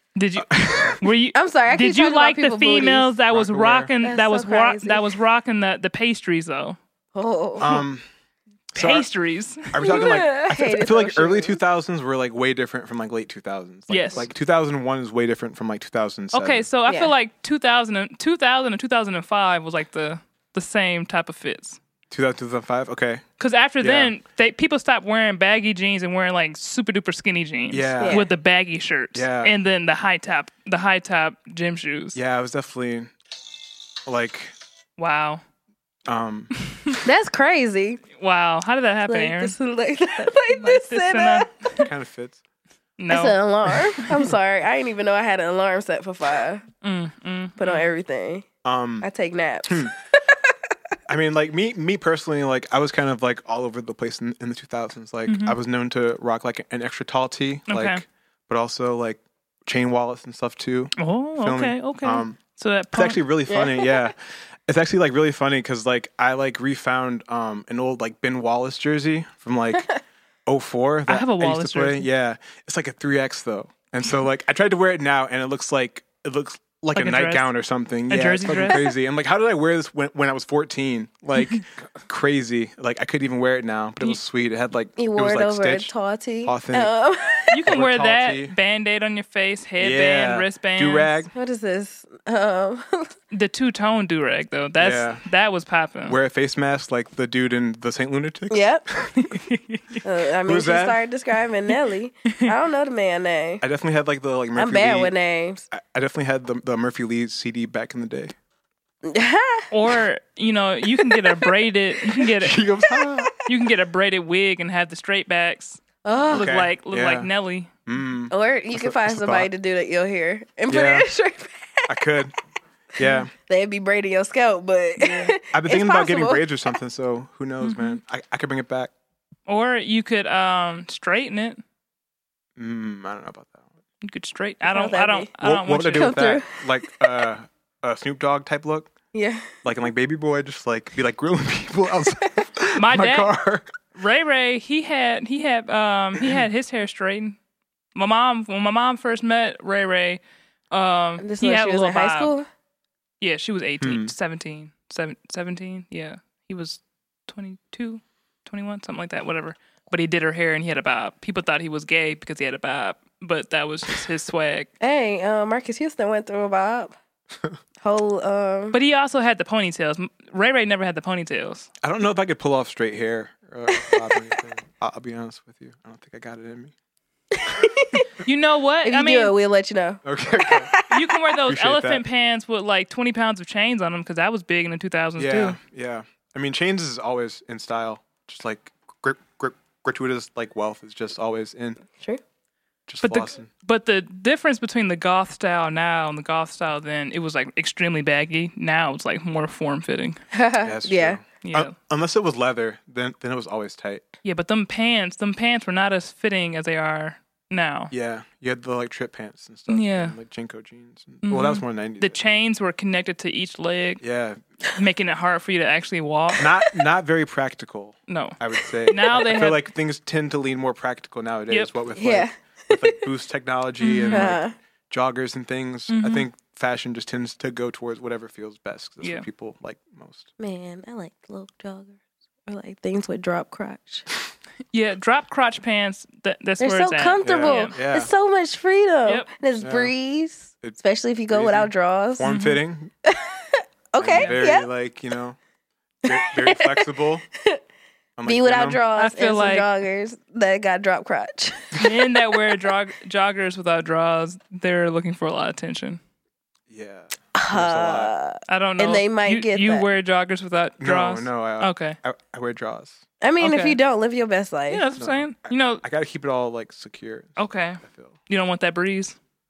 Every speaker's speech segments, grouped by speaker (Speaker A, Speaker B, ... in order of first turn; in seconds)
Speaker A: 0.2-6.8, 8.8-9.9, 13.9-14.3, 16.3-21.8, 23.4-32.2, 35.0-35.4, 38.2-39.5, 40.5-41.9, 43.0-44.2, 46.8-47.9, 55.3-55.6, 57.7-58.0, 61.0-63.2, 71.1-72.1, 77.0-77.5, 78.1-78.8, 87.5-91.2, 93.3-96.2, 99.2-100.0, 109.7-112.6, 113.5-117.7, 125.0-125.3, 127.6-128.0, 129.5-131.6, 134.0-136.3, 142.8-143.3, 143.9-147.4, 147.9-152.3, 153.2-164.7, 168.7-171.7, 178.2-179.3, 180.9-185.6, 193.0-200.2, 201.4-201.7, 204.2-207.9, 209.7-210.2, 211.2-214.0, 214.8-216.5, 218.1-219.7, 223.8-224.3, 225.9-226.3, 229.0-229.3, 234.7-237.7, 242.2-242.6, 244.1-244.4, 249.0-249.7, 251.8-256.0, 258.5-262.0, 263.4-263.8, 264.7-265.8, 267.4-269.2
Speaker B: 0.5-1.0, 3.3-3.9, 7.6-8.1, 8.7-9.1, 9.7-16.7, 22.1-23.2, 23.8-24.1, 27.7-28.3, 29.1-29.6, 32.1-33.1, 34.1-34.5, 36.1-36.5, 41.8-42.4, 48.6-49.1, 49.7-49.9, 51.1-62.4, 62.9-69.9, 70.5-85.9, 86.4-86.9, 87.7-88.5, 89.8-91.3, 94.8-95.2, 96.1-99.2, 100.5-101.0, 103.6-105.1, 105.7-108.3, 112.4-113.3, 116.3-117.3, 117.9-119.5, 120.7-121.1, 121.9-122.3, 123.0-123.3, 125.5-128.9, 132.6-133.7, 135.4-138.9, 139.6-143.7, 153.8-154.1, 171.8-176.7, 180.0-180.7, 181.5-182.0, 185.2-191.8, 192.9-193.5, 200.6-204.1, 207.9-212.4, 214.0-214.4, 216.4-230.3, 237.2-238.1, 239.6-239.9, 241.3-242.9, 244.0-245.4, 246.1-247.2, 248.2-248.8, 256.7-258.1, 260.8-263.0, 265.0-265.2, 265.8-268.1
Speaker C: 1.3-3.1, 4.0-5.0, 7.2-7.8, 9.8-11.6, 16.9-17.1, 28.0-28.3, 37.0-38.0, 39.1-41.5, 43.1-46.6, 47.6-48.5, 49.0-50.5, 63.5-64.1, 85.0-87.5, 91.3-93.1, 98.5-98.8, 100.0-103.6, 104.6-105.7, 109.0-109.7, 111.0-111.5, 112.9-113.3, 116.0-116.5, 118.3-122.3, 123.3-126.7, 134.7-135.3, 135.9-136.6, 139.1-139.6, 151.2-152.5, 164.8-166.9, 167.8-168.8, 173.7-174.1, 177.3-178.1, 178.8-181.1, 200.3-201.2, 222.0-223.0, 224.1-224.6, 230.4-234.1, 236.6-242.3, 243.1-244.7, 246.1-247.6, 248.2-252.6, 257.4-259.9, 263.2-264.8